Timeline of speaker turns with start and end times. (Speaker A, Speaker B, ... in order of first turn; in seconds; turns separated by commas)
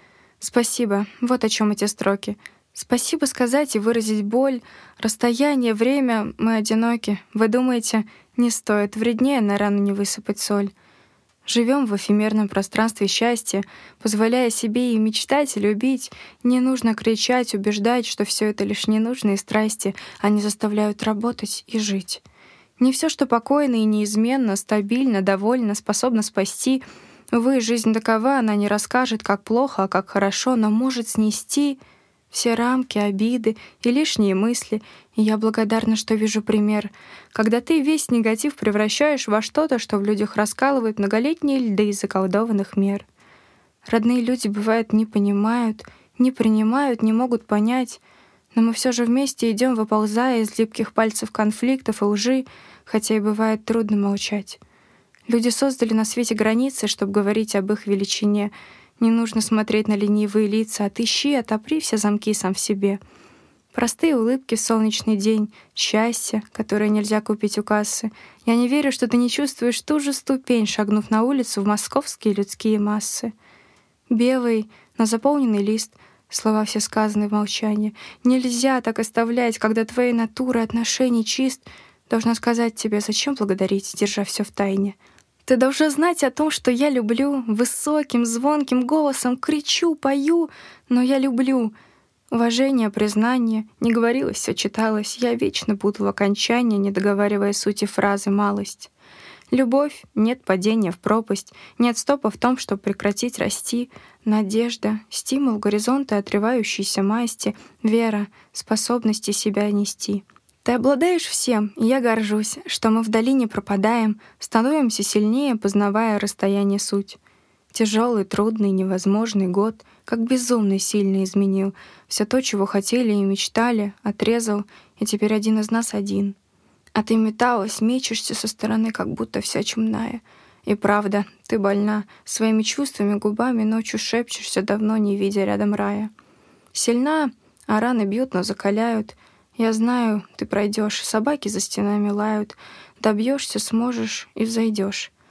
Speaker A: 0.4-10.7, Speaker A: 11.4-22.2, Speaker A: 22.8-31.8, Speaker A: 32.3-43.0, Speaker A: 43.9-48.0, Speaker A: 48.5-54.6, Speaker A: 55.3-63.0, Speaker A: 63.7-73.3, Speaker A: 74.1-91.7, Speaker A: 92.3-98.9, Speaker A: 99.5-117.2, Speaker A: 117.7-126.3, Speaker A: 126.9-136.1, Speaker A: 136.7-145.1